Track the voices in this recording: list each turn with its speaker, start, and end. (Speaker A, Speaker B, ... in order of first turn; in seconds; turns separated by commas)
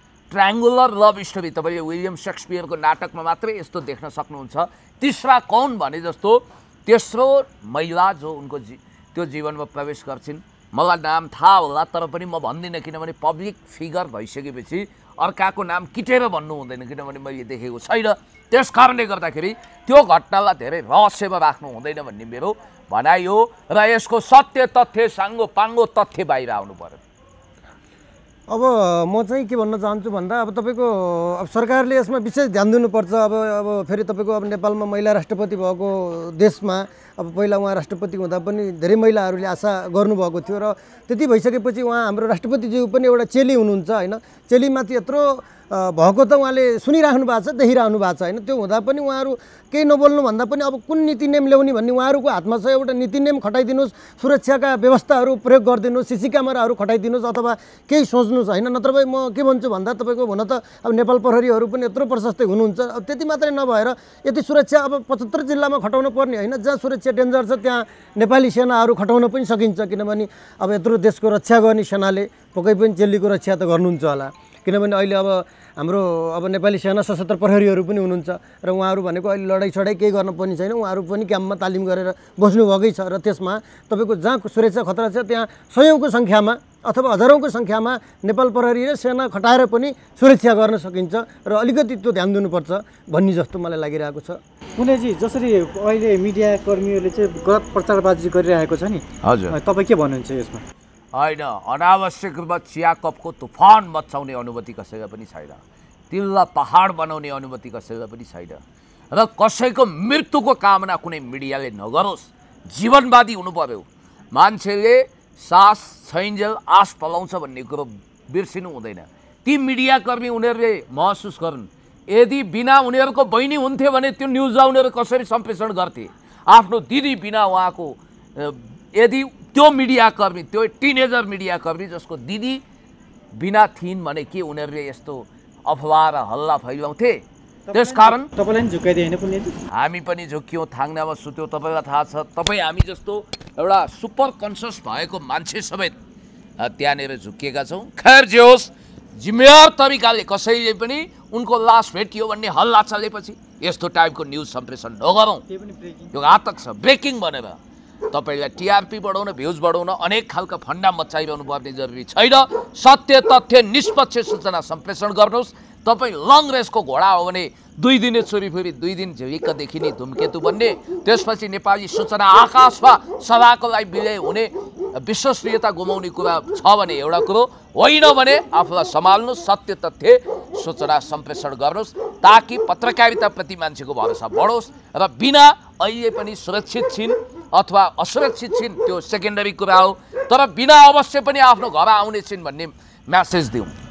Speaker A: 0.3-27.0, Speaker B: 28.5-94.4, Speaker C: 94.8-100.6, Speaker A: 99.2-99.6, Speaker A: 101.1-108.6, Speaker A: 109.1-132.6, Speaker A: 133.3-138.3, Speaker C: 137.7-139.6, Speaker A: 139.7-146.0, Speaker A: 146.6-155.4, Speaker C: 155.5-156.1, Speaker A: 156.1-157.6, Speaker A: 158.1-193.8